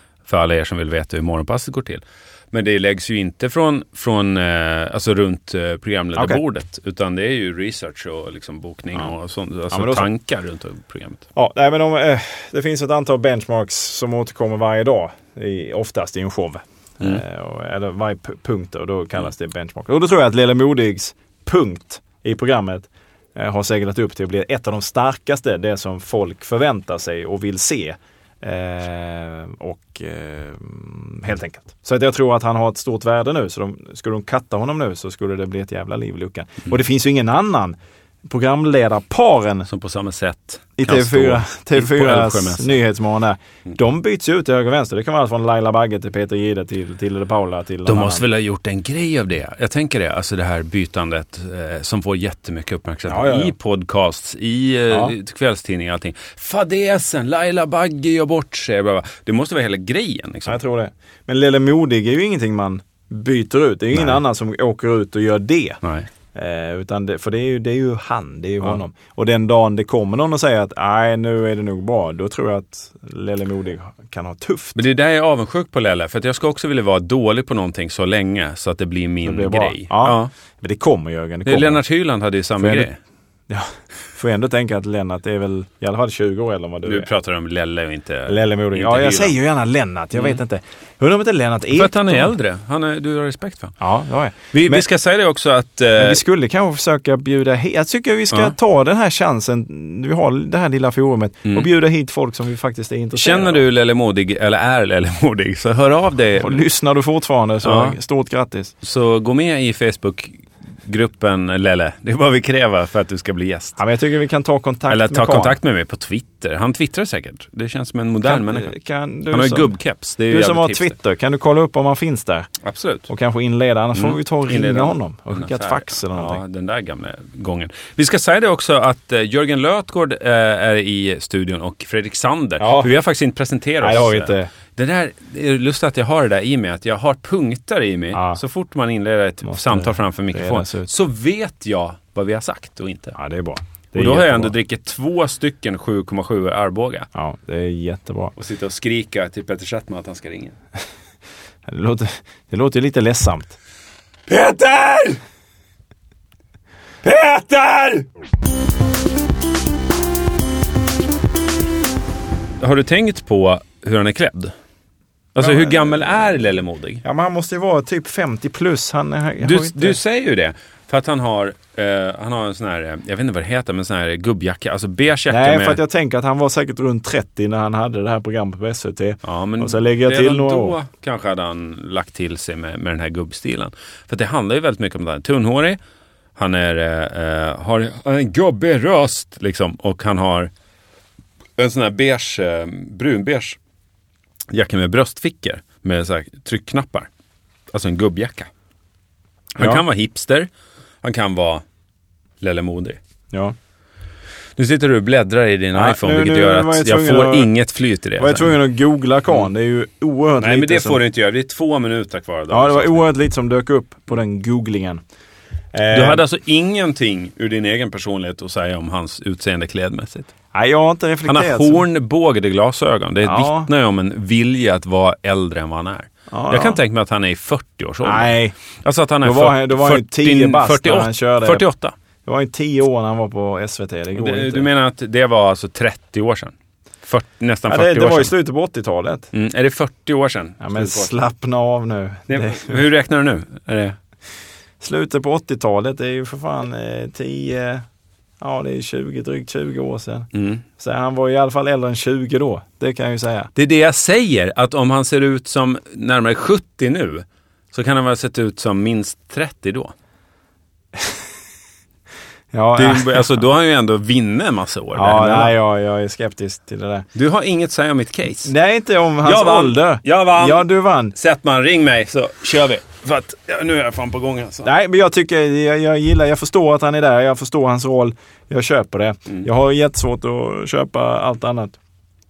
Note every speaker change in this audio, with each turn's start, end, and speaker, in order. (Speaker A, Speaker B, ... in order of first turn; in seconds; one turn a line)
Speaker A: 0.3-11.2
Speaker B: 6.2-6.4
Speaker B: 9.7-10.1
Speaker B: 11.3-39.7
Speaker A: 39.7-42.8
Speaker B: 40.8-48.2
Speaker A: 47.9-60.6
Speaker B: 53.1-53.5
Speaker B: 60.5-65.8
Speaker B: 66.3-74.8
Speaker A: 74.8-80.3
Speaker B: 79.2-81.8
Speaker A: 81.5-83.0
Speaker B: 82.6-82.9
Speaker B: 83.5-87.1
Speaker A: 86.8-89.3
Speaker B: 88.3-92.3
Speaker A: 91.7-93.8
Speaker B: 93.8-94.8
Speaker A: 94.5-96.2
Speaker B: 96.0-103.6
Speaker A: 103.2-106.6
Speaker B: 106.3-108.7
Speaker A: 107.6-108.0
Speaker A: 108.8-113.8
Speaker B: 113.8-115.6
Speaker A: 114.9-118.7
Speaker B: 118.2-119.8
Speaker A: 119.3-120.9
Speaker B: 120.3-122.5
Speaker A: 122.6-123.1
Speaker B: 123.1-126.4
Speaker A: 123.9-143.2
Speaker B: 132.6-132.9
Speaker B: 133.8-134.5
Speaker B: 138.1-138.4
Speaker B: 139.4-140.9
Speaker B: 143.2-144.5
Speaker A: 143.9-147.1
Speaker B: 147.1-148.3
Speaker A: 148.3-150.6
Speaker B: 151.7-153.6
Speaker A: 154.3-155.2
Speaker A: 157.0-158.1
Speaker A: 162.6-164.5
Speaker A: 165.3-167.0
Speaker B: 165.4-166.4
Speaker B: 167.0-170.0
Speaker A: 169.4-175.8
Speaker B: 175.3-180.8
Speaker A: 179.2-185.8
Speaker A: 186.3-190.5
Speaker A: 191.6-193.6
Speaker A: 194.5-197.1
Speaker A: 197.7-198.5
Speaker A: 199.5-200.5
Speaker B: 199.6-199.8
Speaker A: 201.0-201.6
Speaker A: 202.4-203.0
Speaker A: 204.6-208.6
Speaker B: 205.8-207.5
Speaker B: 208.2-211.0
Speaker A: 210.4-213.1
Speaker B: 212.5-215.0
Speaker B: 215.7-216.2
Speaker A: 215.9-220.3
Speaker B: 220.5-221.8
Speaker A: 221.3-231.9
Speaker B: 223.2-223.7
Speaker B: 226.3-226.8
Speaker B: 228.0-228.5
Speaker B: 229.2-231.6
Speaker B: 232.2-234.7
Speaker A: 234.2-236.5
Speaker A: 237.1-238.3
Speaker B: 237.7-239.3
Speaker A: 239.3-241.1
Speaker B: 240.6-242.8
Speaker A: 242.3-243.9
Speaker B: 244.8-247.8
Speaker B: 248.4-253.5
Speaker A: 250.3-250.6
Speaker A: 253.5-259.9
Speaker B: 262.5-263.3
Speaker A: 262.8-265.5
Speaker B: 264.9-267.1
Speaker A: 267.1-268.5
Speaker B: 268.4-271.1
Speaker A: 269.2-274.7
Speaker B: 274.6-281.8